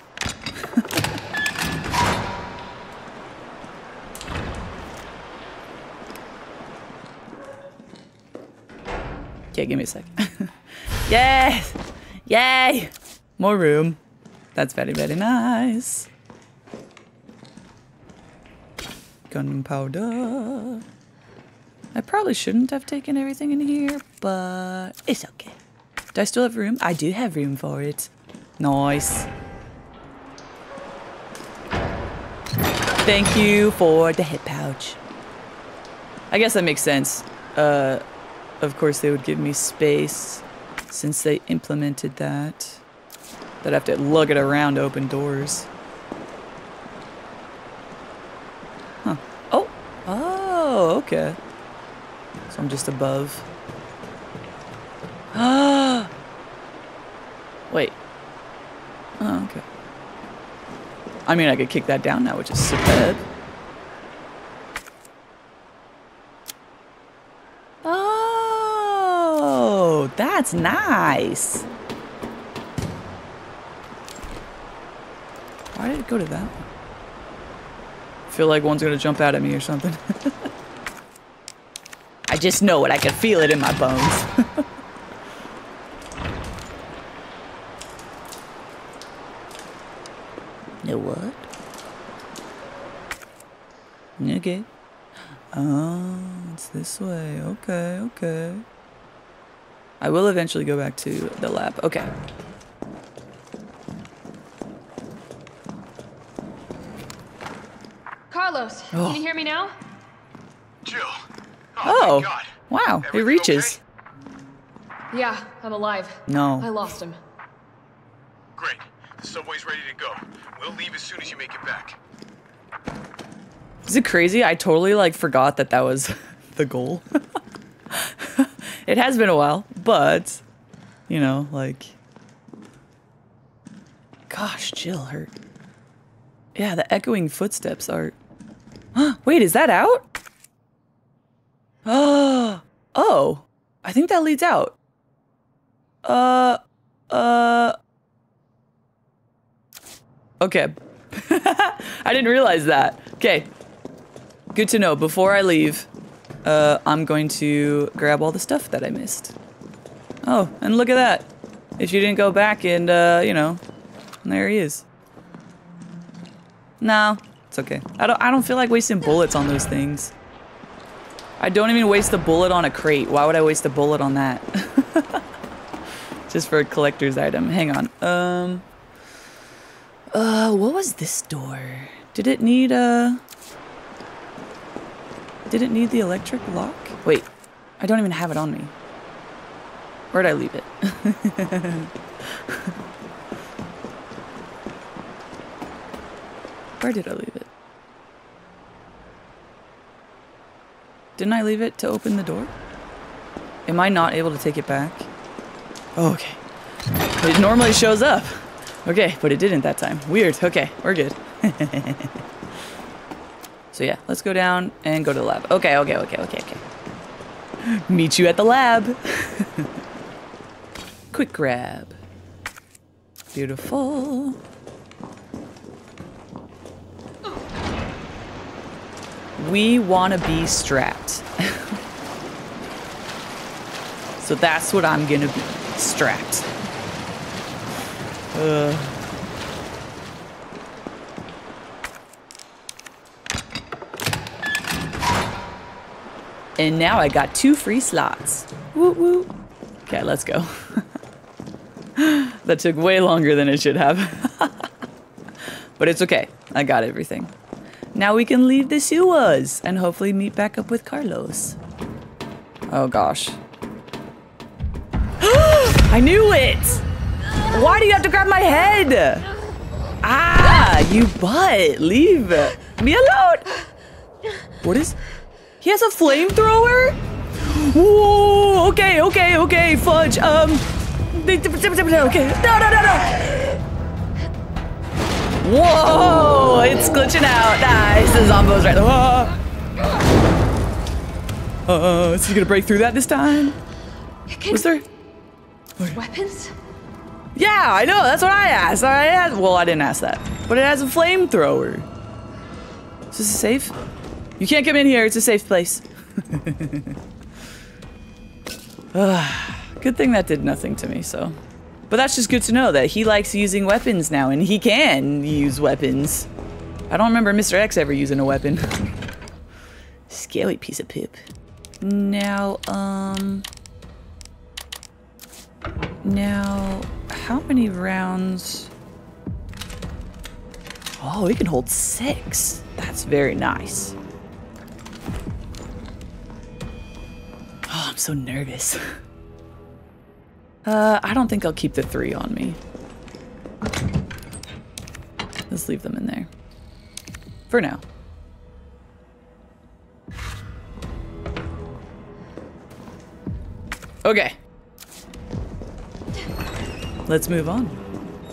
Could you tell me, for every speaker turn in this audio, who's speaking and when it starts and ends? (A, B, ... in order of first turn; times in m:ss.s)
0:09.5-0:10.5 A
0:11.1-0:14.0 A
0:14.6-0:16.1 A
0:19.3-0:20.8 A
0:21.9-0:25.6 A
0:26.1-0:29.3 A
0:33.0-0:35.0 A
0:36.3-0:38.0 A
0:38.6-0:42.8 A
0:43.6-0:45.7 A
0:49.0-0:51.4 A
0:52.5-0:53.5 A
0:55.3-0:56.1 A
0:57.7-0:58.0 A
0:59.2-0:59.6 A
1:01.3-1:03.2 A
1:07.8-1:11.6 A
1:15.8-1:16.6 A
1:18.3-1:20.3 A
1:22.3-1:24.6 A
1:30.8-1:31.5 A
1:34.2-1:34.7 A
1:35.5-1:38.6 A
1:40.0-1:42.1 A
1:48.3-1:49.8 B
1:48.9-1:49.2 A
1:50.8-1:51.2 C
1:51.8-1:53.8 C
1:51.8-1:53.8 A
1:55.1-1:57.2 B
1:56.3-1:56.7 A
1:58.6-2:02.0 C
2:03.9-2:07.0 A
2:07.9-2:10.4 A
2:11.1-2:11.9 A
2:14.3-2:15.3 A
2:16.6-2:18.2 A
2:19.0-2:20.0 A
2:21.9-2:24.8 A
2:26.0-2:26.6 A
2:27.1-2:27.8 A
2:30.4-2:33.5 A
2:34.5-2:35.9 A
2:36.4-2:39.4 A
2:40.2-2:43.6 A
2:44.2-2:44.8 A
2:46.8-2:50.1 A
2:51.4-2:55.2 A
2:56.3-2:58.6 A
3:00.1-3:03.2 A
3:05.5-3:07.3 A
3:07.8-3:08.7 A
3:10.1-3:12.7 A
3:16.8-3:17.5 A
3:21.2-3:22.5 A
3:23.7-3:25.1 A
3:26.0-3:26.4 A
3:27.2-3:32.1 A
3:33.7-3:36.6 A
3:37.6-3:39.7 A
3:41.1-3:42.0 A
3:43.3-3:44.4 A
3:49.4-3:51.8 A
3:54.2-3:56.5 A
3:58.3-3:59.0 A
4:06.6-4:09.3 A
4:09.9-4:10.8 A
4:12.0-4:14.7 A
4:15.8-4:17.3 A
4:17.9-4:21.6 A
4:22.7-4:23.4 A
4:25.2-4:26.8 A
4:27.4-4:29.3 A
4:30.0-4:33.5 A
4:34.6-4:35.0 A
4:35.6-4:43.6 A
4:45.4-4:49.4 A
4:51.7-4:53.6 A
4:54.3-4:54.7 B
4:54.5-4:54.8 A
4:55.9-4:56.5 B
4:57.4-5:01.9 A
5:03.1-5:03.8 A
5:04.4-5:07.0 A
5:08.9-5:11.4 A
5:11.9-5:16.3 A
5:16.9-5:18.8 A
5:20.1-5:21.2 A
5:21.8-5:23.5 A
5:26.0-5:28.7 A
5:31.0-5:34.0 A
5:37.7-5:38.8 A
5:40.6-5:42.6 A
5:45.5-5:46.3 A
5:47.5-5:47.8 A
5:54.0-5:54.4 A
5:57.1-5:57.8 A